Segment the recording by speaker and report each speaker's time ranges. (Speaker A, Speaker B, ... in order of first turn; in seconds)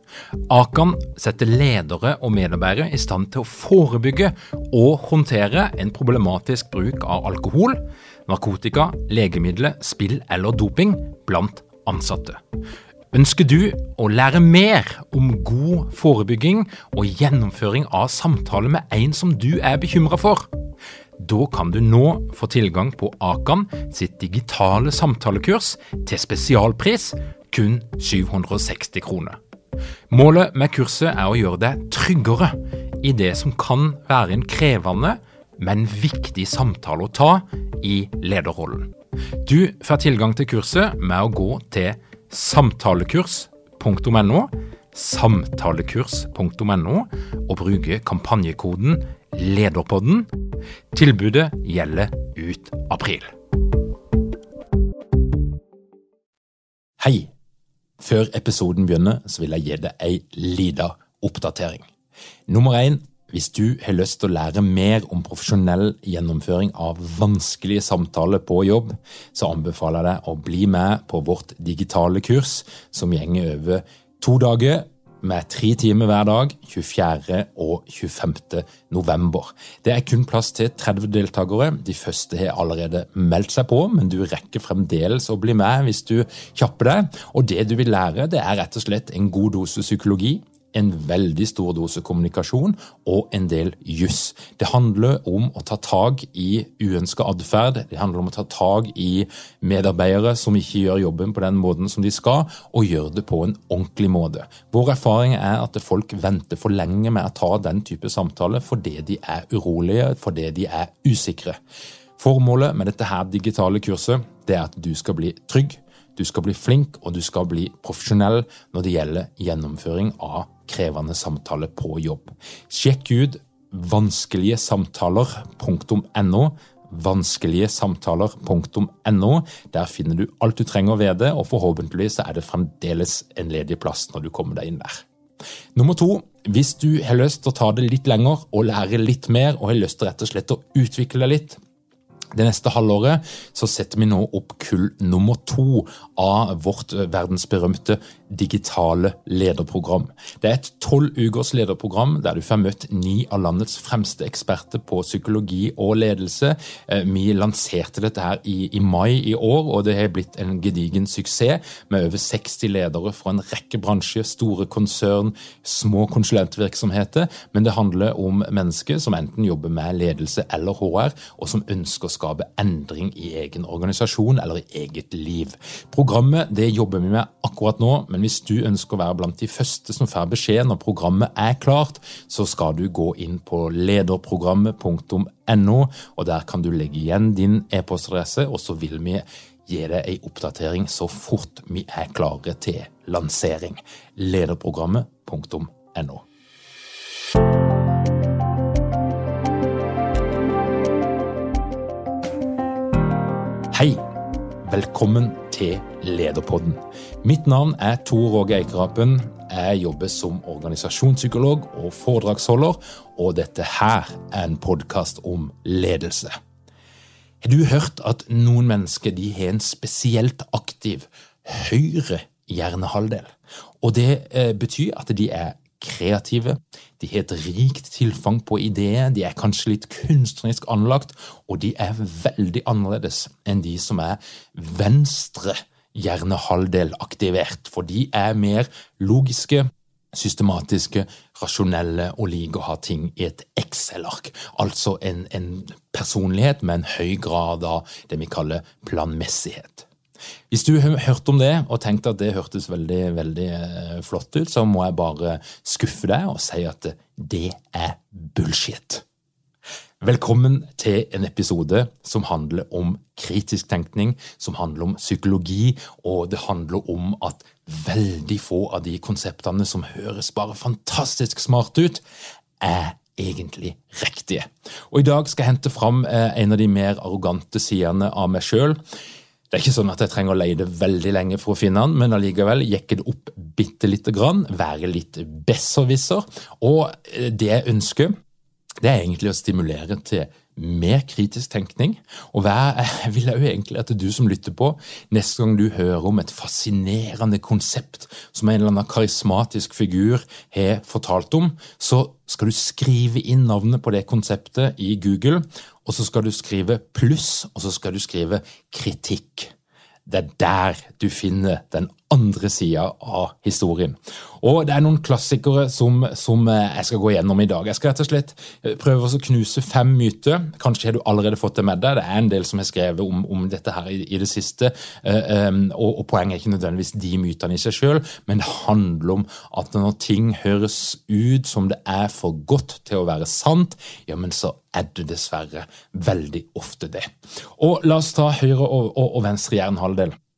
Speaker A: 0.5-12.4, 13.1-20.5, 21.2-29.4, 30.1-38.9, 39.5-50.3, 50.9-53.3, 57.0-57.3, 58.0-61.9, 62.5-111.6, 112.2-135.1, 135.8-141.6, 142.3-196.2, 203.7-204.1, 204.6-216.4, 217.4-249.9, 250.5-259.1, 260.0-272.0, 272.6-278.8, 279.5-288.1, 288.8-309.5, 310.1-340.2